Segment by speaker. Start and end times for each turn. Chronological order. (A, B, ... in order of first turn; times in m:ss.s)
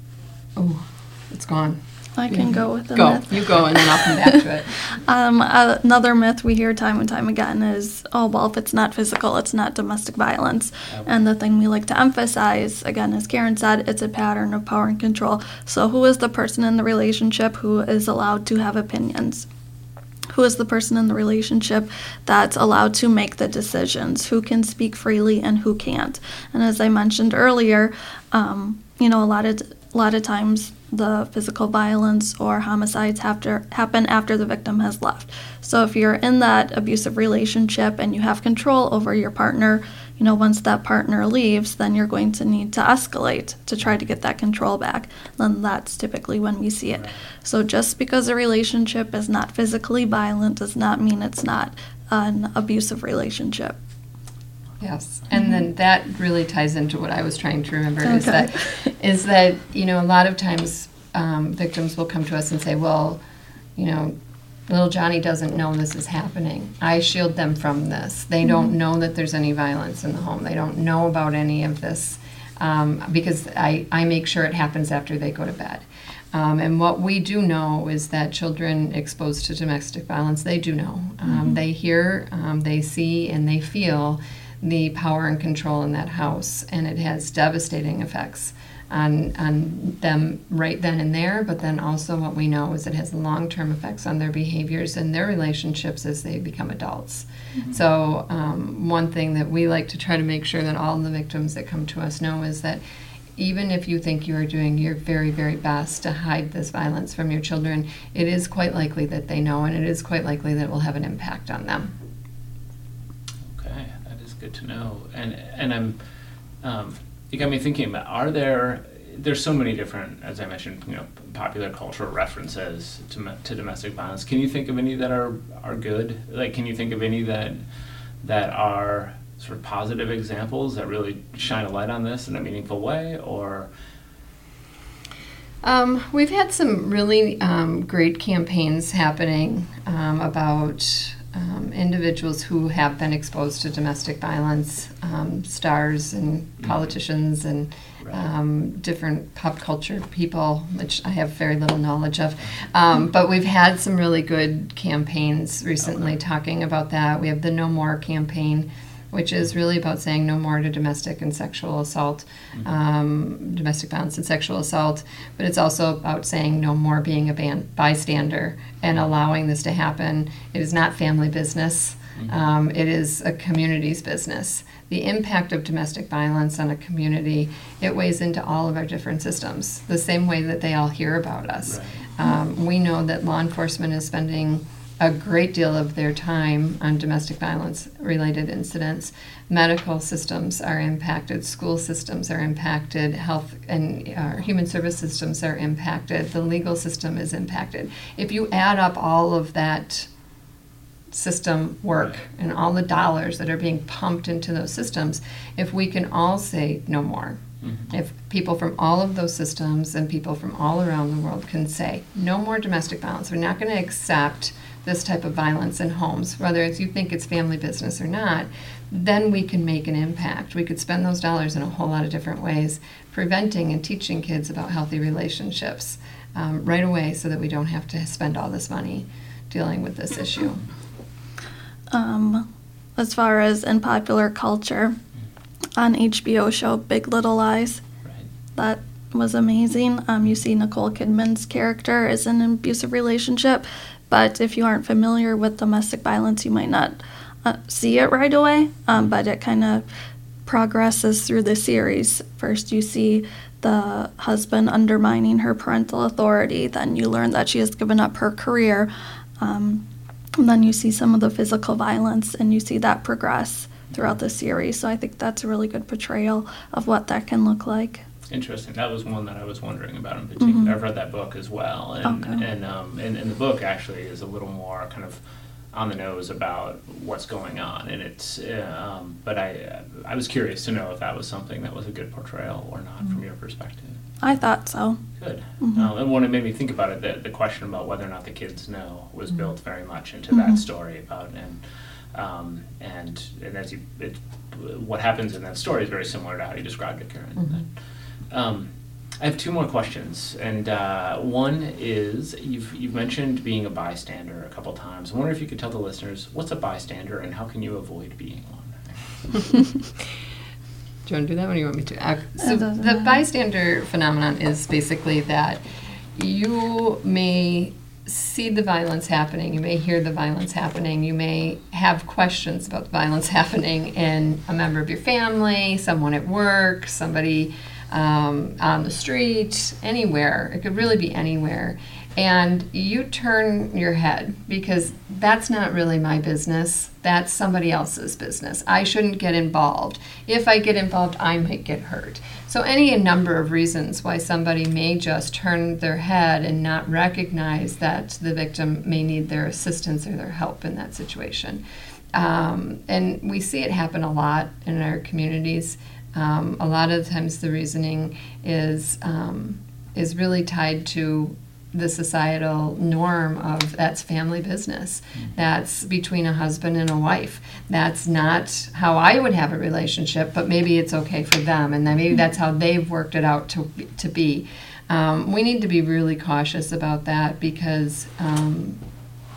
0:00.6-0:04.8 A
0:02.2-0:19.5 B
0:20.3-0:53.8 B
0:54.8-1:03.2 A
0:58.0-0:58.7 B
1:03.8-1:04.2 A
1:04.7-1:42.8 A
1:21.3-1:21.5 B
1:43.4-1:51.9 A
1:53.4-1:56.0 C
1:56.6-2:07.6 C
2:08.2-2:13.7 C
2:15.6-3:20.1 A
2:28.0-2:28.3 C
2:35.8-2:36.1 C
3:01.6-3:02.1 C
3:21.1-3:50.7 A
3:27.6-3:27.9 C
3:51.9-3:55.0 B
3:55.8-3:57.8 B
3:58.5-4:09.8 B
4:10.4-4:19.8 B
4:20.4-4:28.0 B
4:28.3-4:35.2 C
4:30.4-4:30.7 B
4:32.0-4:32.4 B
4:35.7-4:44.0 C
4:44.2-4:45.0 B
4:45.2-4:51.6 C
4:45.6-4:45.9 B
4:50.3-4:50.6 B
4:52.1-4:57.7 C
4:58.3-5:09.4 C
5:11.0-5:15.6 A
5:12.5-5:13.0 B
5:16.1-5:51.6 A
5:52.1-6:18.8 A